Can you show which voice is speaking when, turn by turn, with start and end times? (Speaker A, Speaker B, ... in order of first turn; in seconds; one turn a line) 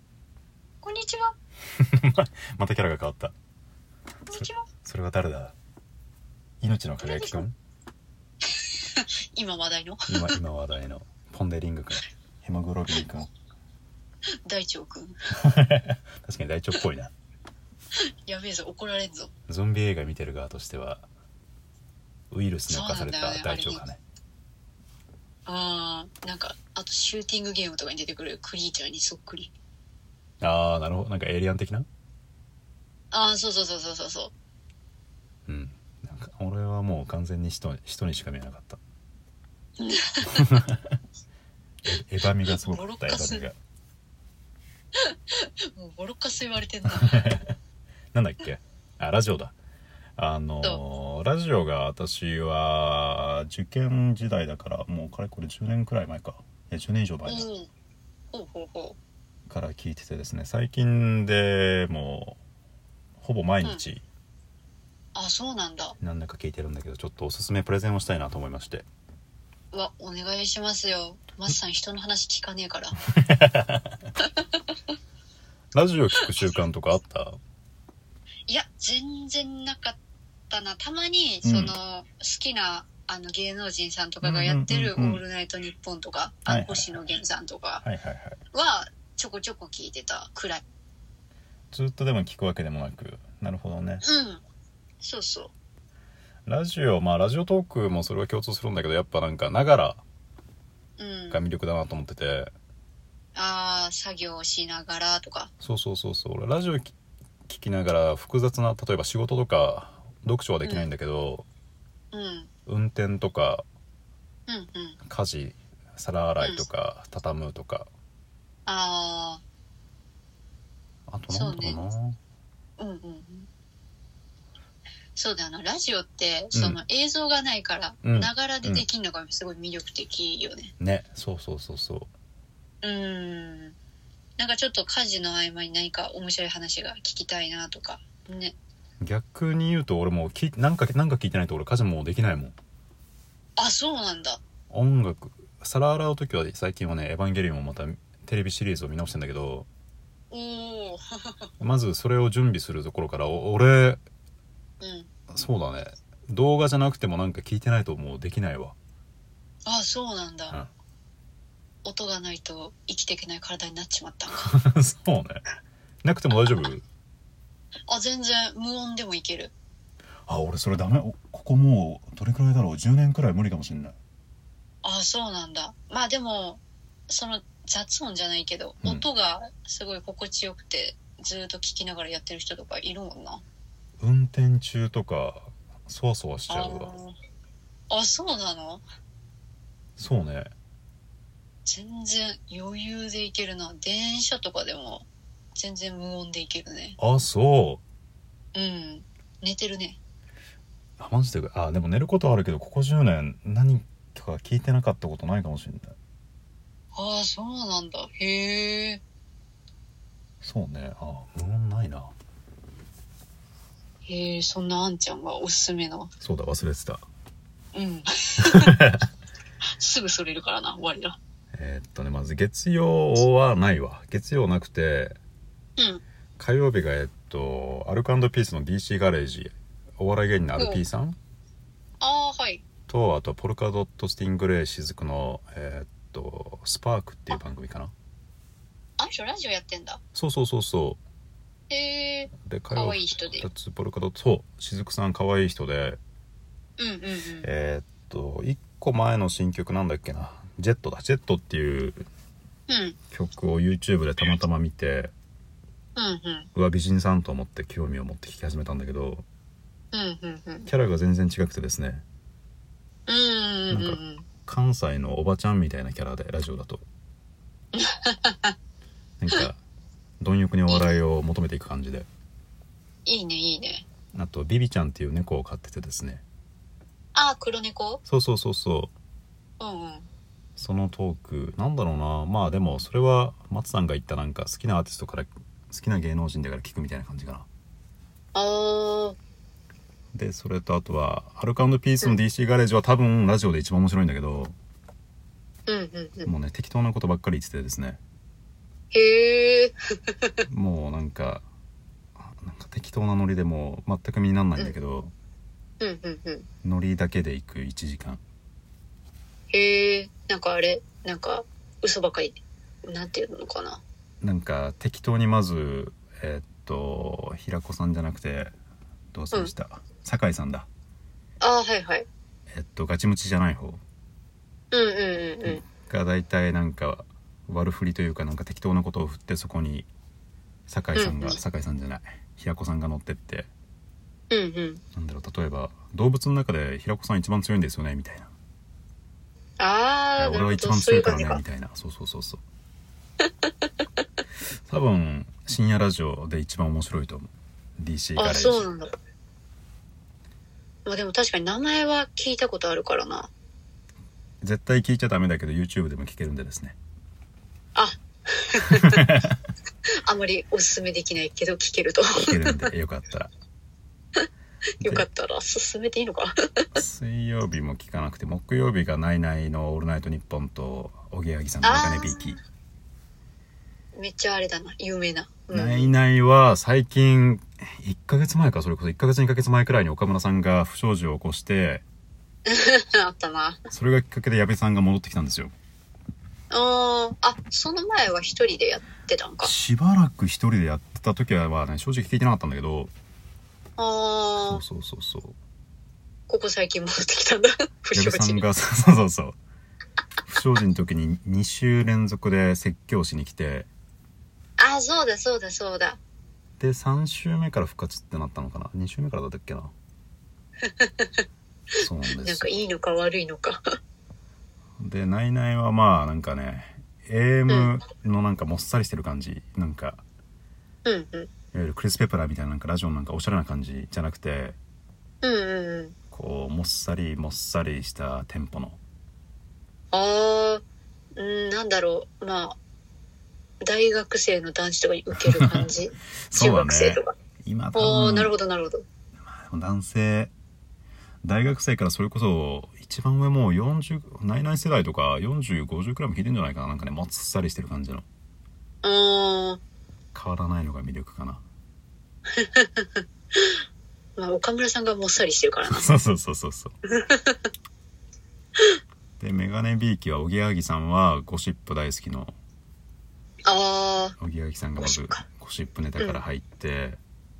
Speaker A: 0.8-1.3
Speaker B: 1.8-3.3
Speaker A: 4.3-4.7
Speaker B: 4.3-5.5
Speaker B: 6.6-7.5
Speaker A: 7.0-7.4
Speaker A: 8.6-10.3
Speaker B: 10.1-13.3
Speaker A: 14.4-15.2
Speaker B: 15.4-17.1
Speaker A: 18.2-19.3
Speaker B: 19.5-21.1
Speaker B: 22.3-24.0
Speaker A: 22.7-23.8
Speaker A: 25.4-29.5
Speaker B: 30.4-31.9
Speaker A: 33.1-34.3
Speaker B: 35.5-38.8
Speaker A: 39.8-40.4
Speaker B: 40.4-40.8
Speaker B: 41.8-43.5
Speaker A: 42.5-43.4
Speaker A: 45.0-47.3
Speaker B: 46.9-47.5
Speaker B: 48.1-49.5
Speaker B: 50.2-57.5
Speaker A: 57.2-57.7
Speaker A: 58.3-59.0
Speaker B: 59.5-62.4
Speaker B: 63.2-64.0
Speaker A: 65.1-66.0
Speaker B: 66.0-68.8
Speaker A: 69.7-73.0
Speaker B: 73.1-74.0
Speaker A: 74.2-74.5
Speaker B: 75.7-77.4
Speaker A: 78.5-80.0
Speaker A: 80.5-87.8
Speaker B: 81.4-81.8
Speaker B: 84.2-85.2
Speaker B: 86.5-86.9
Speaker B: 87.8-88.4
Speaker A: 88.5-90.6
Speaker B: 91.7-94.0
Speaker A: 94.0-94.4
Speaker A: 95.0-95.5
Speaker B: 96.5-100.0
Speaker A: 101.0-101.4
Speaker B: 101.3-102.5
Speaker A: 103.3-105.5
Speaker B: 105.6-106.9
Speaker B: 107.5-111.5
Speaker A: 112.1-112.5
Speaker B: 112.7-113.7
Speaker A: 114.5-115.0
Speaker B: 115.0-117.9
Speaker A: 118.7-119.4
Speaker B: 121.1-122.2
Speaker A: 121.3-121.8
Speaker A: 122.8-123.5
Speaker A: 125.1-130.7
Speaker B: 126.5-126.8
Speaker B: 128.0-128.8
Speaker B: 130.8-132.1
Speaker A: 132.8-133.7
Speaker A: 134.4-138.5
Speaker B: 139.0-142.5
Speaker A: 143.6-144.4
Speaker B: 144.7-149.7
Speaker A: 150.3-151.4
Speaker B: 151.6-154.0
Speaker A: 154.8-155.1
Speaker B: 155.3-158.8
Speaker A: 159.7-160.6
Speaker A: 161.8-164.5
Speaker B: 164.4-165.4
Speaker B: 166.0-166.8
Speaker A: 167.9-169.5
Speaker B: 170.3-173.9
Speaker A: 174.8-183.4
Speaker B: 184.0-186.9
Speaker A: 186.5-187.2
Speaker A: 187.9-188.8
Speaker B: 190.0-190.5
Speaker A: 191.7-197.0
Speaker B: 197.0-197.8
Speaker A: 198.5-200.0
Speaker B: 201.0-205.9
Speaker A: 206.9-209.0
Speaker B: 210.4-212.1
Speaker A: 214.1-216.1
Speaker B: 216.2-217.0
Speaker A: 217.7-218.7
Speaker B: 218.4-219.1
Speaker A: 219.7-221.2
Speaker B: 221.5-225.2
Speaker A: 225.8-226.0
Speaker B: 226.4-231.2
Speaker A: 230.6-230.8
Speaker A: 232.0-232.6
Speaker B: 232.9-237.9
Speaker A: 239.0-240.0
Speaker B: 240.1-241.0
Speaker A: 241.7-243.4
Speaker B: 242.4-246.0
Speaker A: 246.8-247.5
Speaker B: 247.4-252.1
Speaker A: 252.7-253.0
Speaker B: 253.1-255.1
Speaker A: 255.9-256.5
Speaker B: 256.5-259.2
Speaker A: 259.9-260.7
Speaker B: 260.7-262.0
Speaker A: 263.1-264.3
Speaker B: 263.7-266.8
Speaker A: 267.7-268.5
Speaker B: 269.2-269.6
Speaker B: 270.2-272.1
Speaker A: 270.7-271.0
Speaker A: 273.1-273.9
Speaker B: 274.1-276.2
Speaker A: 277.1-278.0
Speaker B: 278.1-278.9
Speaker A: 279.6-280.1
Speaker B: 280.6-287.4
Speaker A: 288.3-289.2
Speaker B: 290.1-294.5
Speaker A: 295.7-296.3
Speaker B: 296.2-298.0
Speaker A: 298.9-300.4
Speaker B: 300.4-301.4
Speaker B: 302.2-305.1
Speaker A: 305.8-306.5
Speaker B: 306.6-308.2
Speaker A: 309.5-313.8
Speaker B: 314.2-318.5
Speaker B: 319.1-320.7
Speaker A: 321.4-322.1
Speaker B: 322.5-323.8
Speaker A: 324.7-325.6
Speaker B: 325.4-329.9
Speaker B: 330.7-333.5
Speaker A: 330.9-331.4
Speaker A: 334.3-334.8
Speaker B: 334.9-338.3
Speaker A: 339.6-341.4
Speaker B: 340.2-342.4
Speaker B: 344.7-348.7
Speaker A: 348.1-348.9
Speaker A: 350.8-353.3
Speaker B: 354.4-356.8
Speaker A: 357.7-359.0
Speaker B: 358.7-359.4
Speaker A: 360.0-362.7
Speaker B: 362.1-363.3
Speaker A: 364.8-366.3
Speaker B: 366.7-372.4
Speaker A: 371.6-372.2
Speaker A: 373.9-375.9
Speaker B: 375.5-381.8
Speaker A: 382.4-383.6
Speaker B: 383.7-385.5
Speaker A: 386.5-389.5
Speaker B: 389.4-392.9
Speaker A: 393.8-394.6
Speaker B: 394.4-395.4
Speaker A: 396.3-398.4
Speaker B: 397.9-399.4
Speaker B: 400.3-403.7
Speaker A: 404.6-406.0
Speaker B: 406.6-409.7
Speaker A: 410.6-411.2
Speaker B: 411.8-412.5
Speaker A: 412.2-413.6
Speaker B: 414.8-420.0
Speaker A: 417.5-417.7
Speaker A: 420.8-421.3
Speaker B: 421.5-424.6
Speaker A: 425.2-425.9
Speaker B: 426.1-428.8
Speaker A: 429.9-430.6
Speaker A: 431.1-432.6
Speaker A: 433.6-437.1
Speaker B: 435.4-435.6
Speaker B: 436.3-438.3
Speaker A: 437.7-438.8
Speaker B: 439.2-440.3
Speaker B: 441.2-448.1
Speaker A: 448.8-449.6
Speaker B: 450.1-451.4
Speaker A: 452.4-453.6
Speaker A: 454.2-455.9
Speaker B: 455.7-456.7
Speaker A: 456.9-457.4
Speaker B: 459.2-462.4
Speaker A: 463.4-464.2
Speaker B: 464.2-467.0
Speaker A: 464.8-465.2